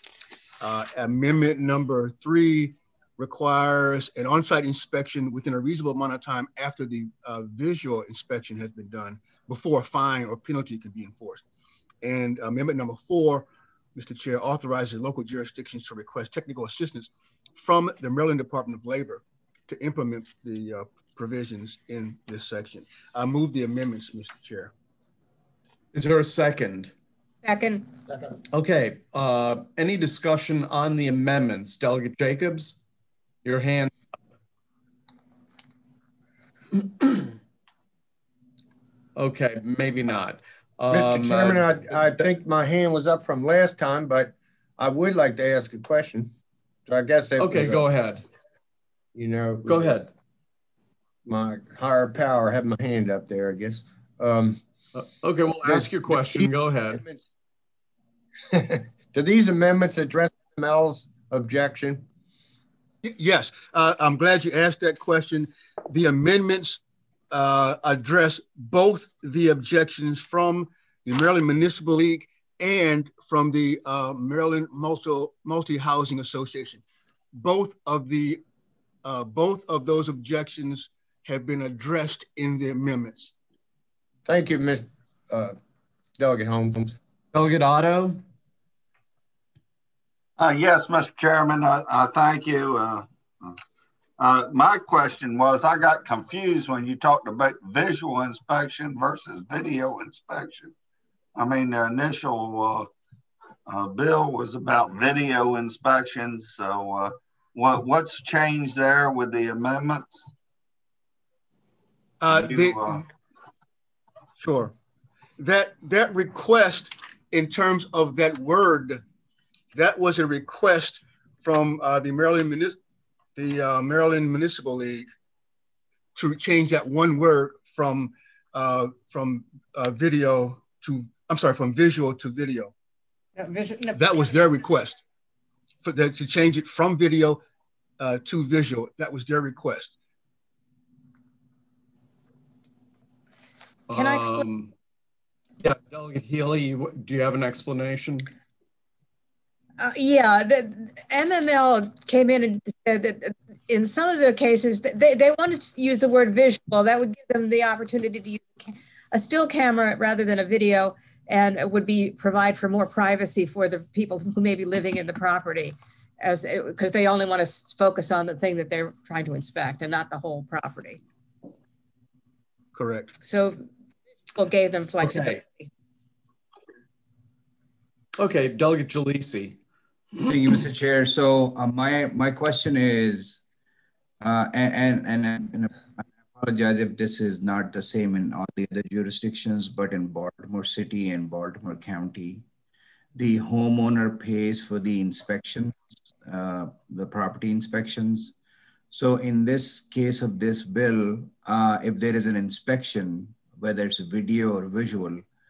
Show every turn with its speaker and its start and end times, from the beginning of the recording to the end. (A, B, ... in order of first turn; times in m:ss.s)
0:00.6-0:11.4 A
0:12.0-0:24.7 A
0:25.9-0:26.9 B
0:27.4-0:27.9 C
0:28.5-0:32.8 B
0:33.4-0:34.0 B
0:36.8-0:37.3 B
0:39.2-0:42.3 B
0:40.9-0:46.3 D
0:46.9-0:47.9 D
0:47.4-0:48.2 B
0:49.1-0:50.0 D
0:49.7-0:50.1 B
0:51.2-0:54.6 D
0:55.0-0:57.0 B
0:55.6-0:57.2 D
0:58.5-1:02.0 D
1:03.0-1:06.8 A
1:07.3-1:16.8 A
1:17.4-1:18.4 A
1:19.0-1:23.3 A
1:24.3-1:25.6 D
1:26.2-1:27.0 D
1:27.3-1:28.2 B
1:30.4-1:33.5 E
1:34.2-1:40.7 E
1:41.4-1:42.9 E
1:43.7-1:50.2 E
1:52.2-1:53.0 A
1:52.3-1:53.0 E
1:54.4-1:54.7 A
1:55.4-1:59.0 A
1:59.8-2:02.8 A
2:03.4-2:05.1 A
2:06.2-2:12.7 A
2:13.4-2:14.4 C
2:14.0-2:15.0 A
2:15.8-2:17.4 A
2:18.0-2:19.9 A
2:23.9-2:24.7 B
2:23.9-2:24.5 C
2:25.6-2:28.3 B
2:29.8-2:51.0 C
2:52.7-2:53.1 A
2:53.2-2:53.6 C
2:54.4-2:55.7 C
2:55.0-2:55.4 B
2:58.2-2:59.6 B
3:00.2-3:03.4 F
3:04.2-3:12.4 F
3:13.2-3:18.4 F
3:18.9-3:25.2 F